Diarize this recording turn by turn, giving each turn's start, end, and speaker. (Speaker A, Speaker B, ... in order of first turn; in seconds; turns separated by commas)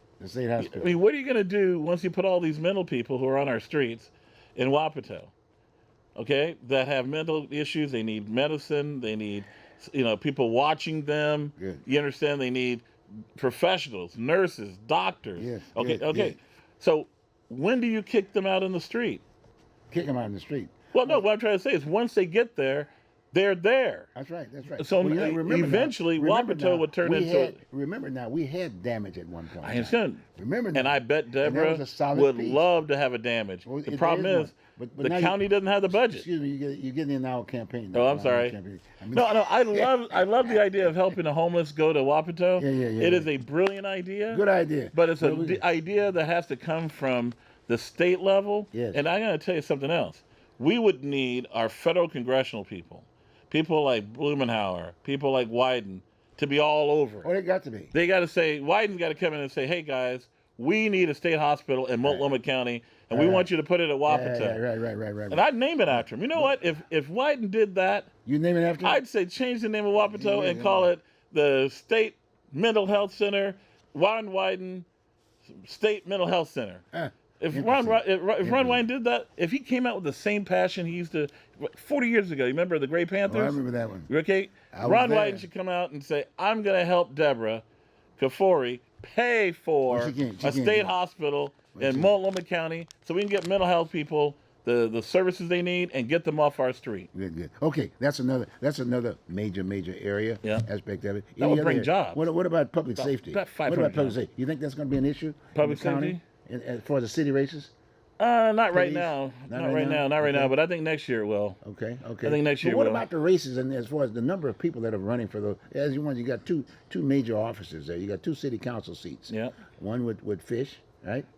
Speaker A: 0.2-0.9, Speaker B: 0.6-5.3, Speaker B: 6.2-19.2, Speaker A: 11.6-11.8, Speaker A: 15.3-16.4, Speaker A: 19.9-21.2, Speaker B: 20.9-24.1, Speaker A: 24.1-32.6, Speaker B: 24.8-27.6, Speaker B: 29.6-36.2, Speaker A: 33.6-35.4, Speaker A: 35.9-40.0, Speaker B: 37.9-38.5, Speaker B: 39.1-57.3, Speaker A: 42.6-43.3, Speaker A: 44.3-45.6, Speaker A: 48.7-49.0, Speaker A: 57.2-57.9, Speaker B: 57.9-64.6, Speaker A: 62.0-62.3, Speaker A: 63.1-63.5, Speaker A: 64.1-66.6, Speaker B: 65.3-68.1, Speaker A: 68.2-69.0, Speaker B: 68.8-74.8, Speaker A: 70.0-70.9, Speaker B: 75.4-76.8, Speaker A: 76.9-78.8, Speaker B: 77.4-87.6, Speaker A: 83.3-84.1, Speaker A: 84.7-85.5, Speaker B: 88.2-97.1, Speaker A: 89.9-90.9, Speaker A: 91.7-92.1, Speaker A: 97.1-107.7, Speaker B: 101.4-102.2, Speaker B: 103.0-104.2, Speaker B: 105.5-106.2, Speaker B: 108.2-111.6, Speaker A: 108.7-110.5, Speaker A: 111.6-121.3, Speaker B: 112.2-113.0, Speaker B: 119.3-119.6